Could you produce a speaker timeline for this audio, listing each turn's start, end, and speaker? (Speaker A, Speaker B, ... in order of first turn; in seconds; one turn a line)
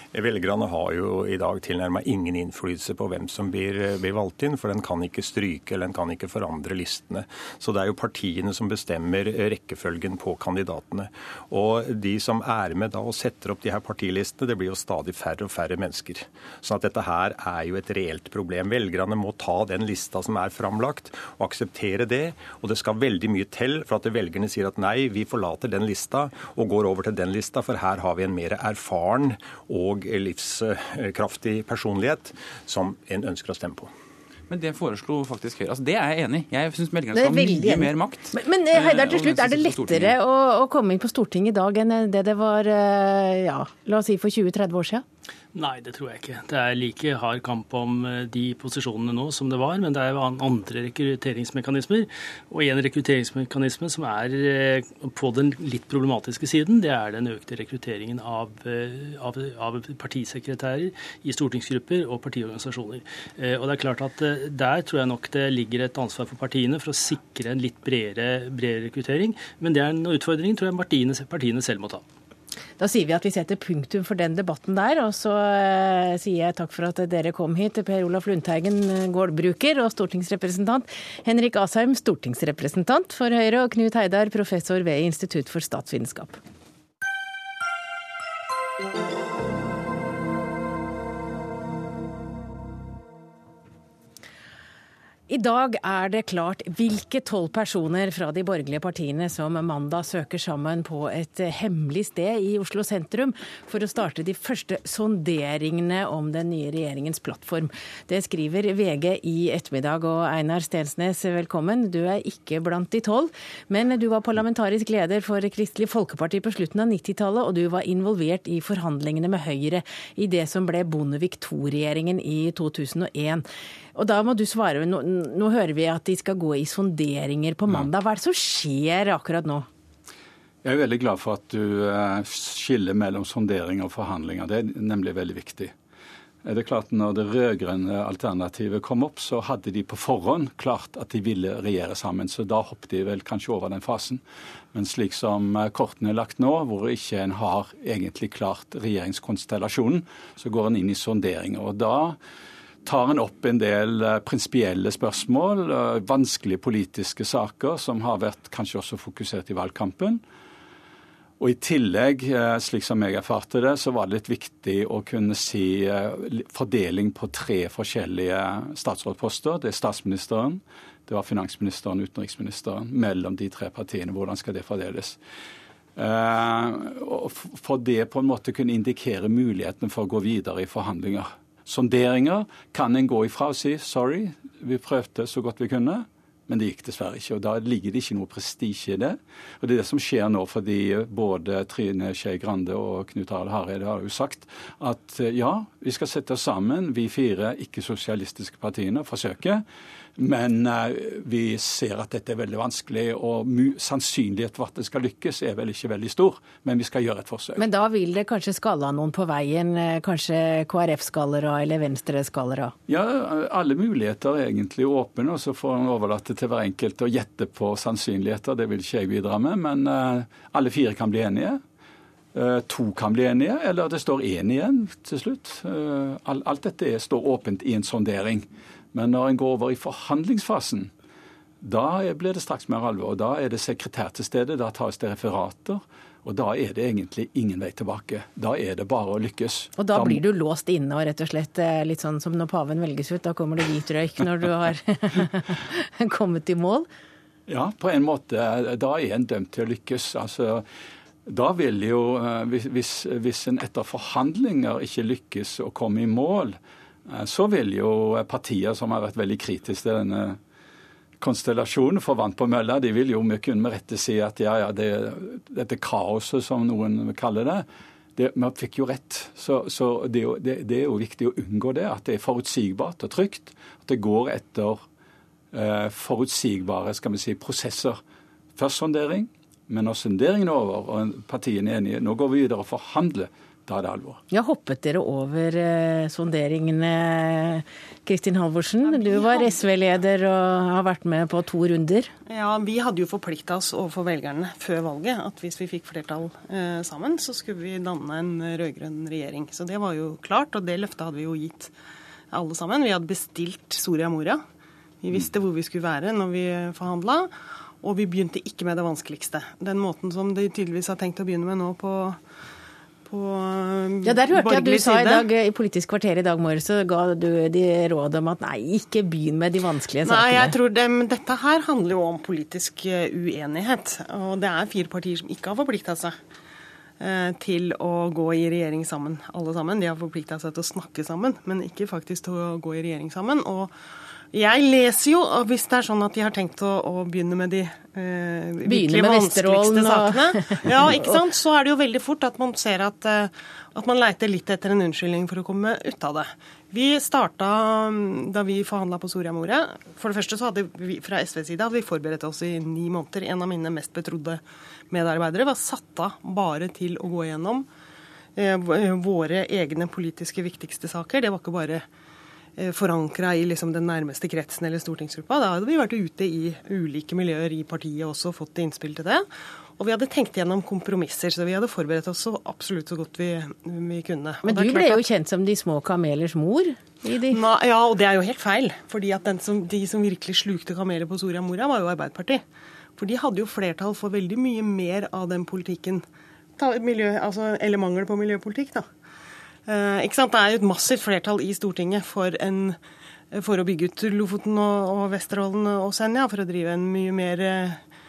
Speaker A: 0.1-33.9
Speaker B: 34.5-40.2
Speaker C: 37.1-45.0
Speaker D: 45.5-72.0
Speaker C: 72.8-86.4
Speaker C: 95.3-129.7
Speaker E: 130.6-135.7
Speaker E: 136.4-144.2
Speaker E: 144.7-152.2
Speaker E: 152.8-160.2
Speaker E: 161.4-175.2
Speaker E: 175.9-199.6
Speaker E: 200.2-207.6
Speaker C: 207.6-212.7
Speaker E: 212.9-221.6
Speaker E: 222.3-230.9
Speaker E: 231.6-240.2
Speaker C: 239.8-246.9
Speaker E: 247.5-250.6
Speaker E: 251.2-260.4
Speaker E: 261.2-267.6
Speaker E: 268.1-274.8
Speaker E: 275.5-278.0
Speaker E: 278.6-284.2
Speaker C: 284.3-292.1
Speaker F: 288.8-289.6
Speaker F: 292.3-301.7
Speaker F: 302.3-304.4
Speaker F: 305.0-307.3
Speaker F: 307.8-312.2
Speaker F: 313.0-315.3
Speaker C: 314.0-320.5
Speaker F: 320.0-326.1
Speaker F: 327.0-333.7
Speaker F: 334.3-357.6
Speaker C: 338.6-341.2
Speaker F: 358.4-361.8
Speaker F: 362.6-375.0
Speaker C: 374.4-377.4
Speaker F: 377.3-382.4
Speaker F: 382.9-386.0
Speaker F: 386.6-388.9
Speaker F: 389.7-392.8
Speaker F: 393.3-397.8